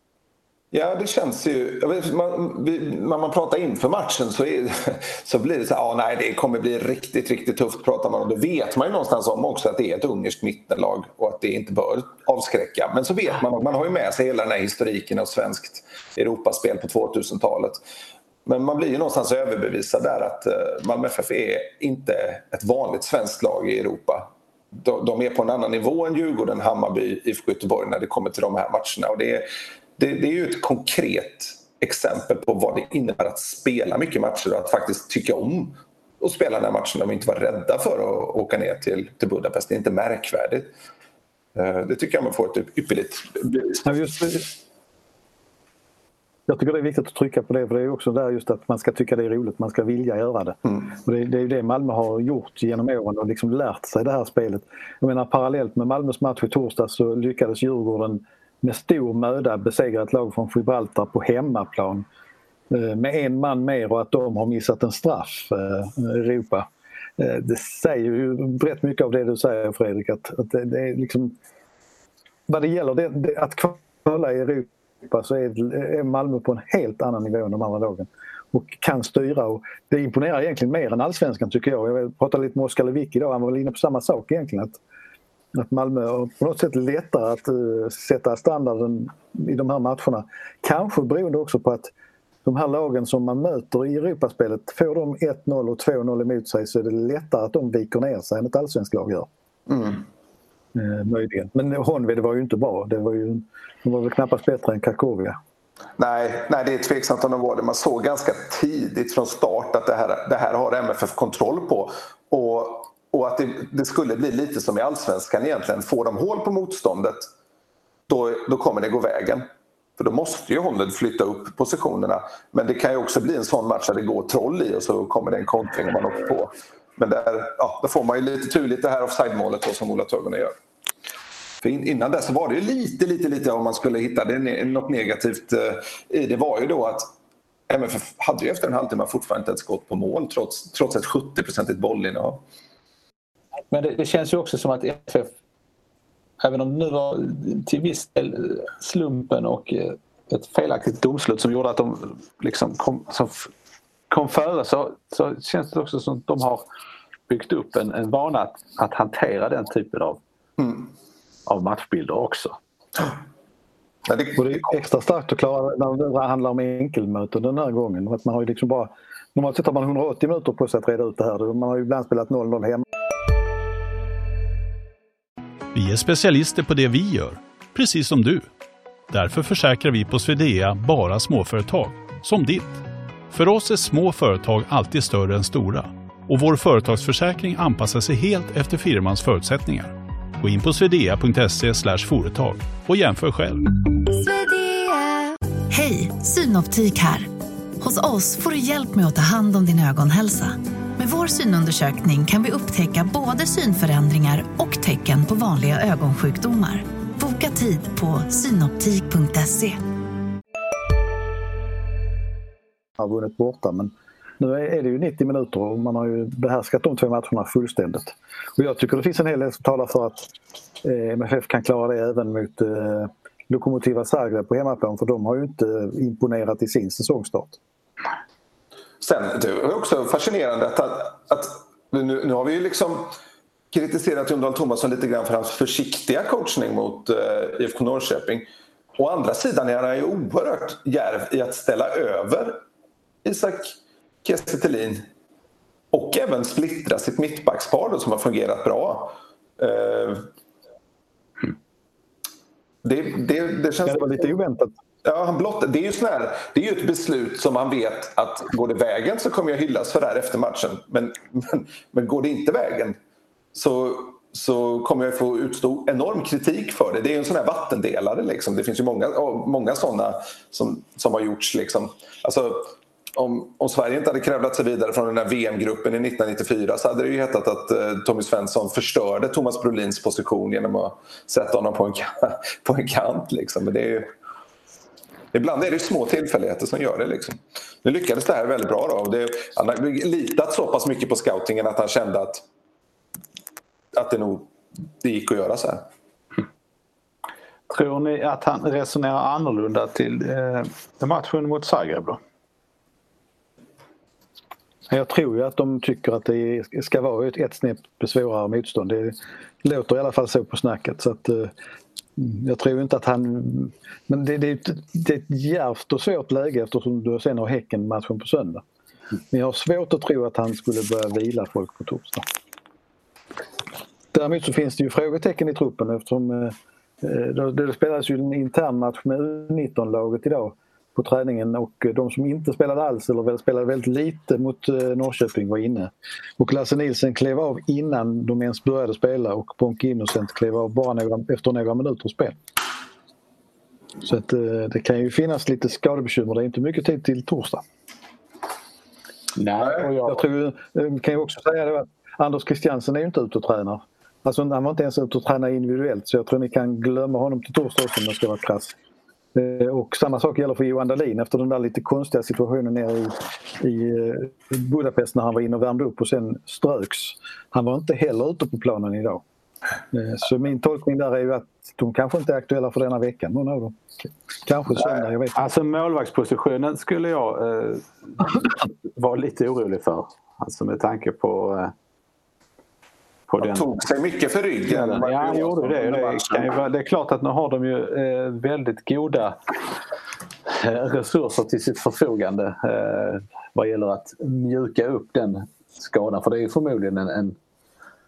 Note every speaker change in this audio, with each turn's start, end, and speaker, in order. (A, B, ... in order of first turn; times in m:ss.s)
0:00.7-0:17.8 A
0:18.4-0:40.7 A
0:41.5-0:44.0 A
0:43.8-0:44.5 B
0:46.5-1:02.0 B
1:02.7-1:11.4 B
1:12.5-1:24.8 B
1:25.5-1:31.9 B
1:32.4-1:39.3 B
1:39.7-1:40.0 A
1:40.7-1:45.4 B
1:46.0-1:57.3 A
1:58.1-1:59.5 A
2:00.0-2:10.5 A
2:11.6-2:17.1 A
2:17.7-2:22.4 A
2:23.7-2:25.3 C
2:26.4-2:33.5 C
2:34.1-2:36.6 C
2:37.3-2:40.2 C
2:40.6-2:40.9 A
2:41.5-2:42.6 C
2:44.0-2:44.7 A
2:44.3-2:52.8 B
2:55.7-2:58.5 D
2:59.1-3:13.7 D
3:14.1-3:29.8 E
3:33.0-3:40.3 B
3:40.8-3:47.6 B
3:49.0-3:53.1 A
3:53.7-4:02.6 A
4:03.2-4:05.0 A
4:05.9-4:10.3 A
4:12.8-4:14.3 A
4:13.8-4:14.7 B
4:15.0-4:23.0 A
4:23.5-4:44.1 A
4:45.3-4:52.4 A
4:53.9-4:54.5 A
4:55.0-4:55.8 A
4:57.7-5:02.2 C
5:04.9-5:11.5 B
5:12.2-5:18.6 B
5:19.3-5:22.2 B
5:24.1-5:42.4 B
5:44.0-5:47.6 B
5:49.3-5:50.2 C
5:50.0-5:58.8 B
5:59.3-6:09.2 B
6:09.9-6:13.8 B
6:14.4-6:15.4 B
6:15.3-6:21.7 C
6:23.3-6:23.7 C
6:23.4-6:26.5 A
6:24.7-6:29.4 C
6:30.5-6:37.4 C